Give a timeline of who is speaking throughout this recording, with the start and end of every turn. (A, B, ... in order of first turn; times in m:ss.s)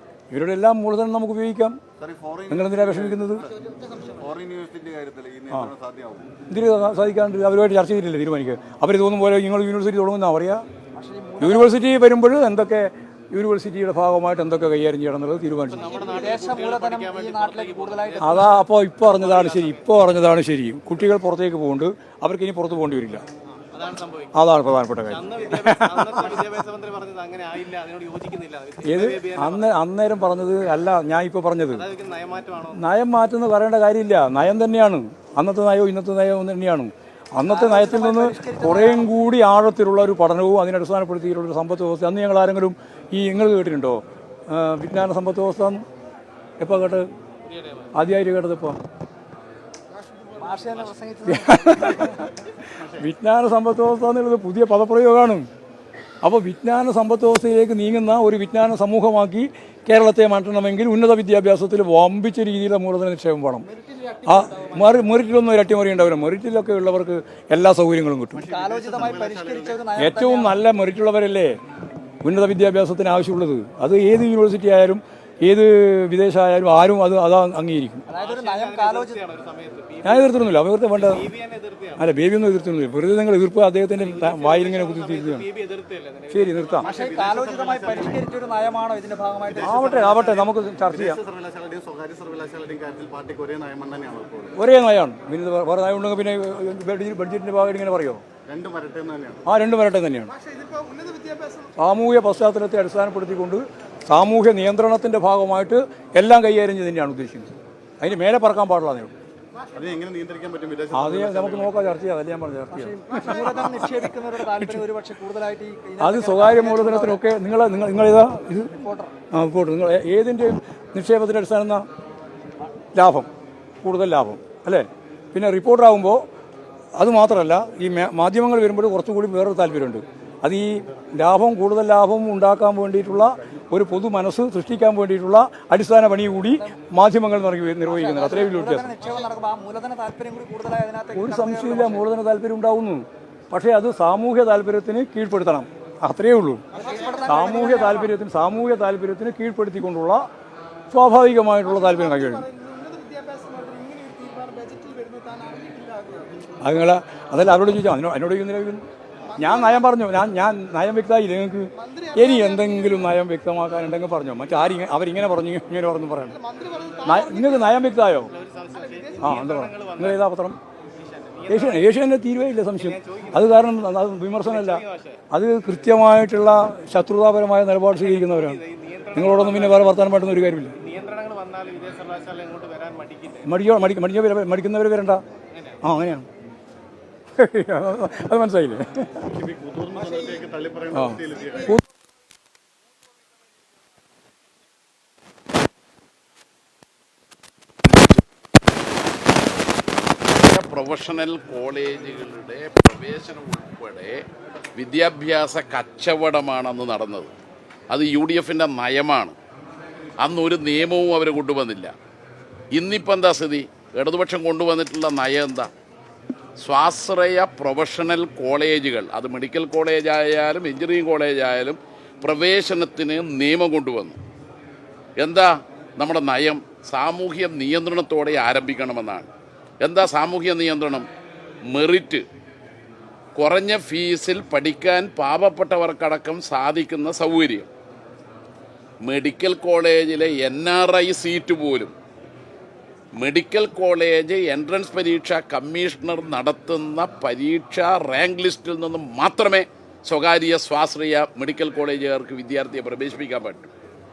0:00.3-0:01.8 A
0:02.0-0:03.5 B
0:02.5-0:03.4 A
0:04.0-0:06.3 B
0:06.5-0:10.6 A
0:10.9-0:11.8 C
0:11.4-0:15.9 A
0:15.7-0:18.4 D
0:15.7-0:18.7 C
0:18.2-0:23.2 A
0:19.0-0:19.8 D
0:23.7-0:24.4 D
0:24.3-0:26.4 A
0:25.0-0:29.7 D
0:28.8-0:31.8 A
0:31.7-0:32.8 D
0:32.7-0:45.8 A
0:37.4-0:39.1 C
0:46.6-0:47.1 A
0:47.4-0:47.9 D
0:47.9-0:48.8 A
0:50.0-0:50.6 E
0:50.4-0:52.3 C
0:51.2-0:55.5 A
0:56.2-1:03.7 A
1:03.8-1:04.8 E
1:04.2-1:08.4 A
1:08.3-1:09.8 B
1:08.5-1:10.6 C
1:10.0-1:11.5 A
1:12.2-1:18.0 A
1:18.1-1:19.2 C
1:18.1-1:22.1 D
1:20.0-1:21.2 A
1:22.0-1:25.4 A
1:23.9-1:26.8 D
1:26.3-1:26.9 A
1:26.8-1:30.2 C
1:26.8-1:28.3 B
1:29.5-1:34.5 B
1:29.6-1:31.2 A
1:34.6-1:38.2 A
1:38.5-1:39.4 B
1:39.4-1:40.3 A
1:40.4-1:41.7 E
1:41.8-1:49.1 A
1:49.7-1:51.9 B
1:50.9-1:53.8 A
1:52.7-1:57.3 C
1:54.6-1:54.8 A
1:56.0-1:58.7 A
1:58.5-1:59.1 C
1:59.3-2:01.8 A
2:02.9-2:03.3 A
2:03.8-2:06.2 A
2:07.0-2:18.9 A
2:16.5-2:16.9 C
2:17.8-2:22.1 C
2:21.1-2:26.6 A
2:26.7-2:28.1 C
2:26.8-2:27.2 E
2:27.2-2:30.2 A
2:30.9-2:32.4 A
2:31.6-2:36.3 E
2:36.6-2:38.8 A
2:39.3-2:39.8 E
2:39.4-2:46.4 A
2:41.7-2:43.1 E
2:46.3-2:48.1 E
2:47.0-2:48.3 A
2:48.2-2:50.3 D
2:48.7-2:49.2 E
2:49.2-2:50.6 A
2:51.0-2:51.9 D
2:51.5-2:58.6 A
2:52.8-2:53.7 D
2:54.3-2:55.2 D
2:57.9-3:00.2 D
2:59.1-3:00.8 A
3:00.8-3:03.6 D
3:03.4-3:05.2 A
3:05.5-3:05.8 D
3:05.8-3:06.3 A
3:07.4-3:09.2 A
3:09.2-3:11.7 B
3:10.9-3:11.8 A
3:20.3-3:24.2 F
3:24.8-3:27.3 F
3:27.9-3:29.4 F
3:30.2-3:31.9 F
3:32.7-3:35.7 F
3:36.6-3:44.2 F
3:45.2-3:49.3 F
3:49.8-3:51.1 F
3:51.7-3:52.2 F
3:53.4-3:57.7 F
3:59.0-4:01.9 F
4:03.2-4:13.7 F